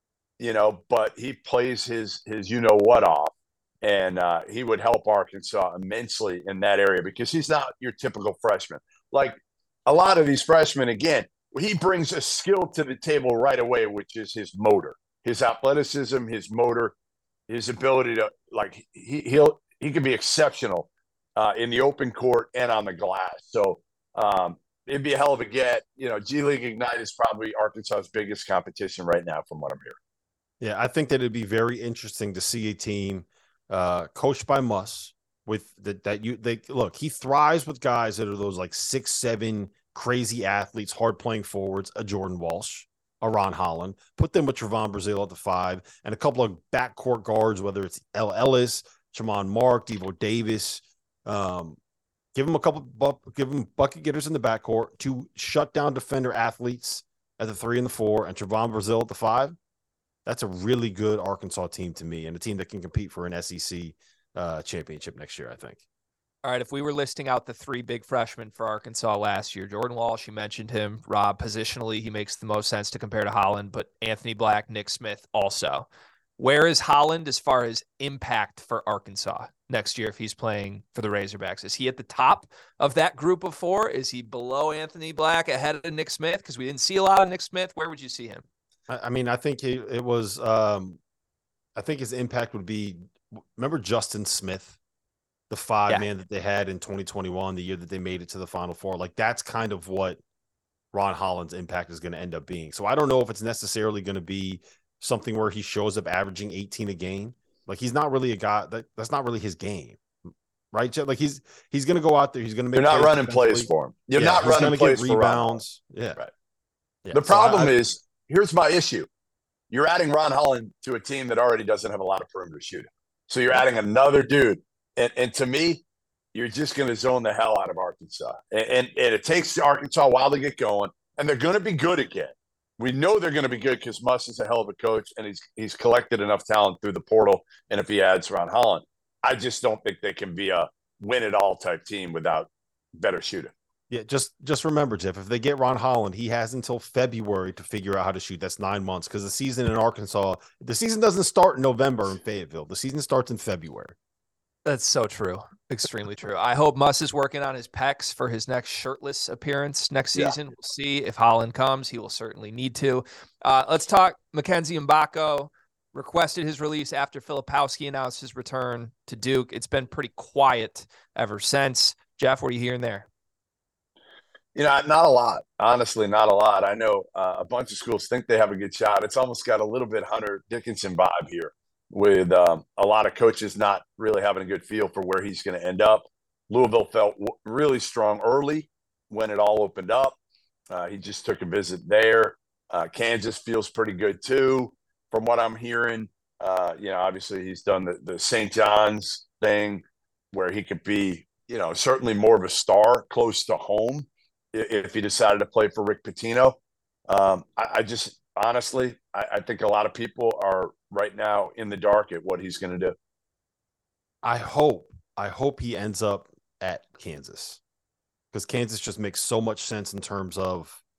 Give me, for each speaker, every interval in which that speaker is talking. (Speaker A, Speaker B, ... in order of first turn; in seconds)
Speaker A: 0.4-16.9, 17.5-30.0, 112.7-115.6, 117.1-119.1, 119.7-125.8, 126.3-143.5, 174.5-190.2, 190.7-206.6, 207.1-212.9
Speaker B: 30.6-51.8, 52.3-59.5, 60.2-65.8, 88.9-91.0, 91.7-94.8, 95.5-100.2, 100.9-110.0, 110.7-116.2, 117.0-117.8, 143.9-153.9, 214.2-217.6, 218.3-220.8
Speaker C: 66.4-75.9, 76.4-88.4, 154.6-173.1